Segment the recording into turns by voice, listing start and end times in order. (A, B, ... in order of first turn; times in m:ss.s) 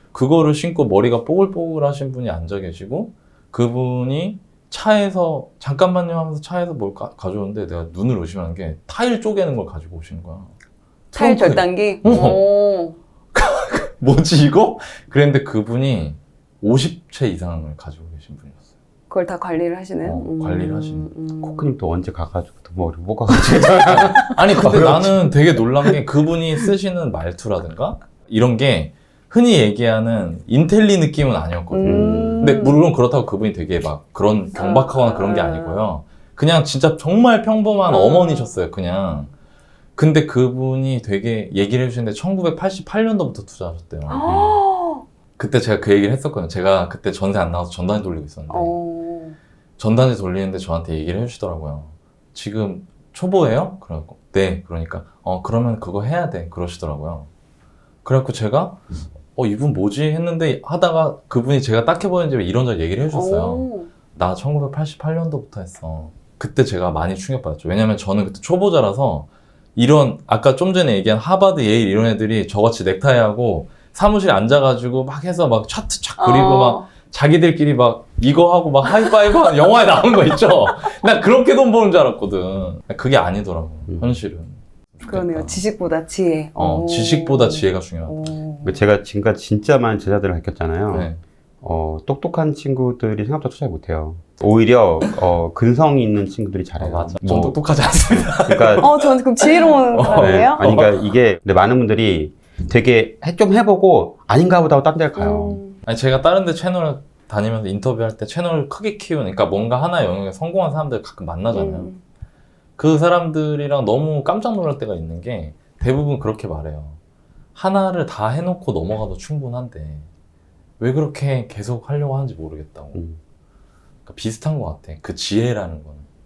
0:00.1-0:10.5 A
0:11.1-0:13.0 B
0:11.1-0:12.5 A
0:13.3-0:18.6 A
0:19.1-0:21.7 B
0:20.0-0:21.1 A
0:21.4-0:25.9 C
0:23.8-0:39.3 A
0:31.7-0:32.8 B
0:31.8-0:32.4 C
0:34.5-0:35.8 B
0:37.9-0:38.5 B
0:40.0-0:44.5 A
0:44.1-0:45.0 B
0:45.4-0:48.7 A
0:48.5-0:49.4 B
0:49.8-0:57.3 A
0:58.0-0:58.8 A
0:59.3-1:25.6 A
1:03.1-1:03.9 B
1:16.2-1:16.9 B
1:23.9-1:24.2 C
1:25.0-1:28.8 B
1:26.6-1:28.3 A
1:28.6-1:31.1 C
1:30.9-1:31.2 A
1:31.6-1:37.6 C
1:36.8-1:41.1 A
1:38.2-1:38.9 C
1:38.8-1:40.7 B
1:40.1-1:45.6 C
1:45.2-1:45.8 B
1:45.8-1:51.9 A
1:51.5-1:52.0 B
1:52.8-1:57.0 A
1:57.5-2:00.1 A
2:00.8-2:03.0 A
2:04.0-2:06.1 A